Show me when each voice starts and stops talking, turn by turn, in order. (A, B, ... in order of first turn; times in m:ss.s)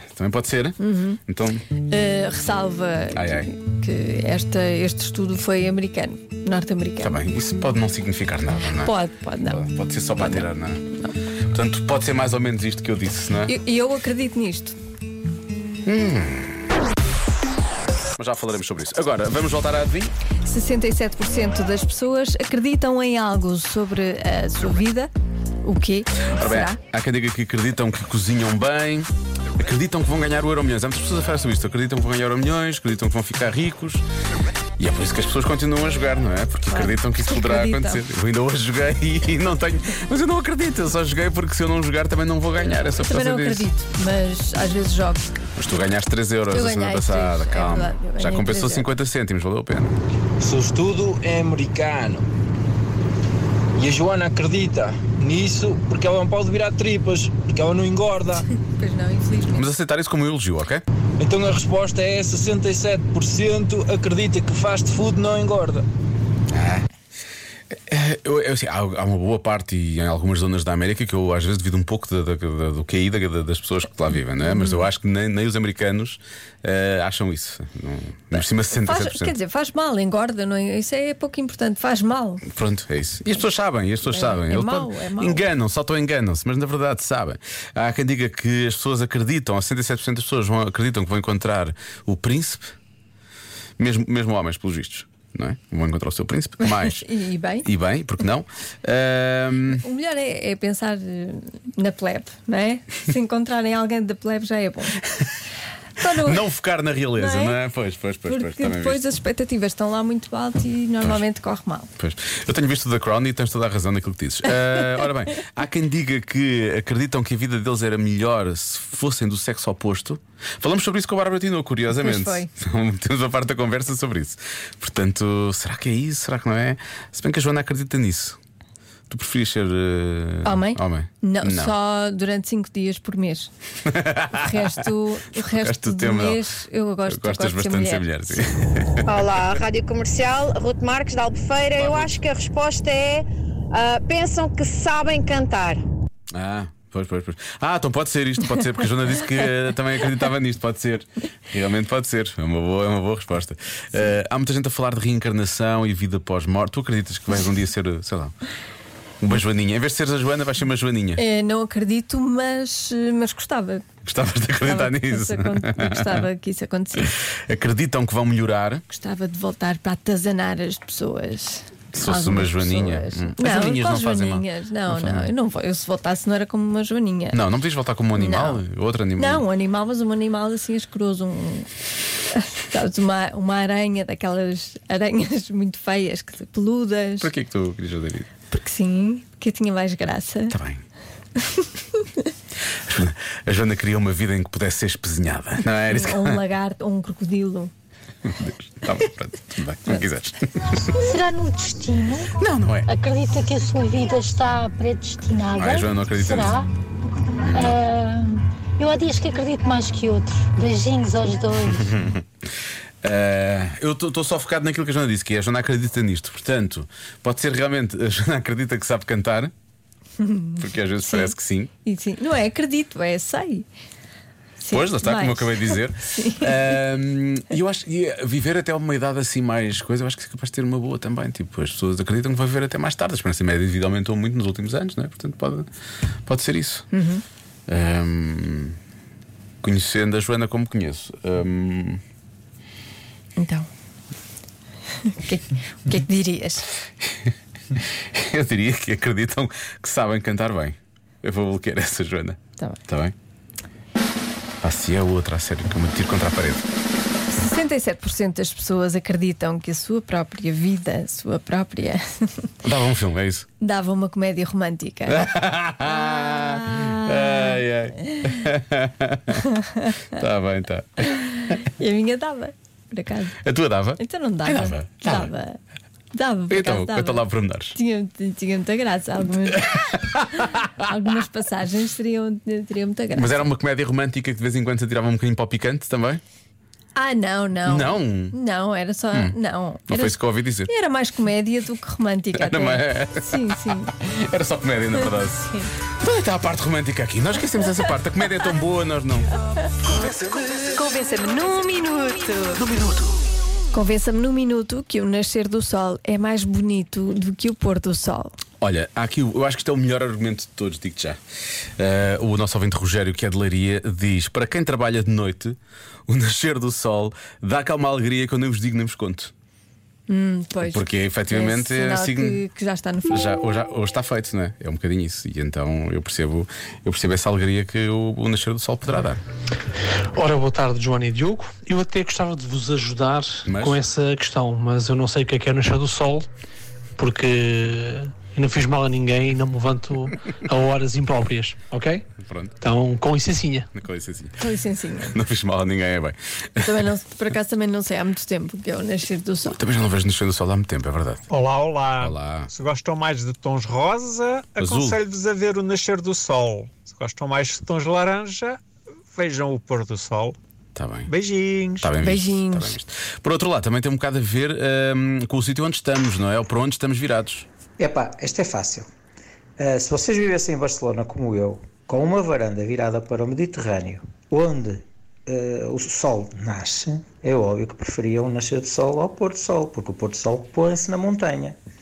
0:00.2-0:00.8 A
0:00.8-0:01.2 B
0:01.3-0:01.6 A
0:01.9-0:07.2 B
0:03.2-0:03.5 A
0:07.0-0:08.9 A
0:08.8-0:09.6 B
0:09.4-0:10.8 A
0:10.2-0:11.1 B
0:11.5-0:13.6 A
0:13.5-0:14.8 B
0:15.9-0:16.7 A
0:18.2-0:20.1 A
0:20.4-0:25.1 B
0:25.6-0:26.8 B
0:26.4-0:34.0 A
0:34.8-0:43.7 A
0:36.7-0:38.0 B
0:43.0-0:45.3 B
0:45.6-0:50.0 A
0:46.5-0:48.9 B
0:50.4-0:52.2 C
0:53.8-0:58.4 C
0:58.3-0:59.7 B
0:59.6-1:00.8 A
1:01.2-1:05.9 C
1:06.5-1:06.9 A
1:07.7-1:19.4 A
1:14.4-1:14.9 B
1:18.3-1:22.4 B
1:22.5-1:32.8 A
1:24.0-1:25.5 B
1:33.8-1:37.0 A
1:36.6-1:37.7 B
1:37.6-1:39.8 A
1:39.8-1:45.0 B
1:46.0-1:46.4 B
1:46.2-1:49.0 A
1:47.2-1:47.6 B
1:48.3-1:51.9 B
1:52.0-2:08.4 A
2:01.9-2:02.5 B
2:09.1-2:11.7 A
2:10.4-2:13.5 B
2:13.9-2:14.7 A
2:14.3-2:18.4 B
2:15.5-2:16.4 A
2:17.1-2:19.1 A
2:19.0-2:25.8 D
2:21.7-2:22.2 A
2:26.3-2:38.4 A
2:39.2-2:41.2 A
2:41.2-2:43.9 B
2:44.0-2:46.3 A
2:44.6-2:47.1 B
2:47.0-2:48.8 A
2:48.9-2:57.4 B
2:51.9-2:55.3 A
2:57.3-2:59.4 A
2:58.2-2:58.6 B
2:59.2-3:01.7 B
3:02.3-3:07.3 B
3:07.2-3:08.3 A
3:08.5-3:10.6 B
3:10.5-3:10.8 A
3:12.9-3:16.4 A
3:15.9-3:17.7 B
3:18.2-3:21.0 A
3:21.0-3:22.3 E
3:22.4-3:22.9 A
3:22.8-3:26.7 E
3:25.6-3:26.7 A
3:27.4-3:27.8 A
3:27.5-3:31.9 E
3:31.7-3:32.2 A
3:33.0-3:39.5 A
3:40.2-3:41.3 B
3:40.6-3:41.7 A
3:41.8-3:43.7 B
3:44.6-3:46.5 B
3:44.7-3:55.7 A
3:56.3-3:56.9 A
3:56.9-3:57.2 B
3:57.7-3:58.8 A
3:59.6-4:02.0 A
4:03.4-4:03.7 B
4:05.0-4:06.7 B
4:07.2-4:13.1 A
4:14.6-4:16.7 A
4:17.3-4:22.5 B
4:22.6-4:23.5 A
4:23.6-4:25.3 B
4:25.1-4:29.4 A
4:26.4-4:27.5 B
4:29.6-4:30.0 B
4:30.1-4:31.6 A
4:31.6-4:33.4 B
4:33.4-4:35.3 A
4:34.0-4:35.6 B
4:36.1-4:43.5 B
4:36.5-4:37.8 A
4:39.8-4:40.2 A
4:43.1-4:46.2 A
4:47.0-4:53.9 B
4:47.7-4:48.4 A
4:49.9-4:50.7 A
4:52.4-4:53.4 A
4:53.9-4:59.3 A
5:00.6-5:02.7 B
5:03.7-5:08.3 B
5:08.6-5:11.2 A
5:11.8-5:19.3 A
5:20.1-5:23.3 B
5:20.6-5:22.4 A
5:23.1-5:29.2 A
5:30.1-5:36.3 F
5:33.5-5:33.9 A
5:37.0-5:42.0 F
5:42.2-5:42.6 A
5:42.6-5:43.7 F
5:43.7-5:44.4 A
5:44.4-5:45.2 B
5:45.1-5:46.8 A
5:46.6-5:49.6 B
5:49.5-5:51.2 A
5:51.3-5:58.6 G
5:52.0-5:52.5 A
5:54.6-5:55.0 A
5:59.1-6:00.4 G
6:00.8-6:01.1 A
6:01.1-6:01.9 G
6:01.8-6:07.5 A
6:02.0-6:02.8 B
6:07.8-6:08.9 H
6:09.6-6:21.6 H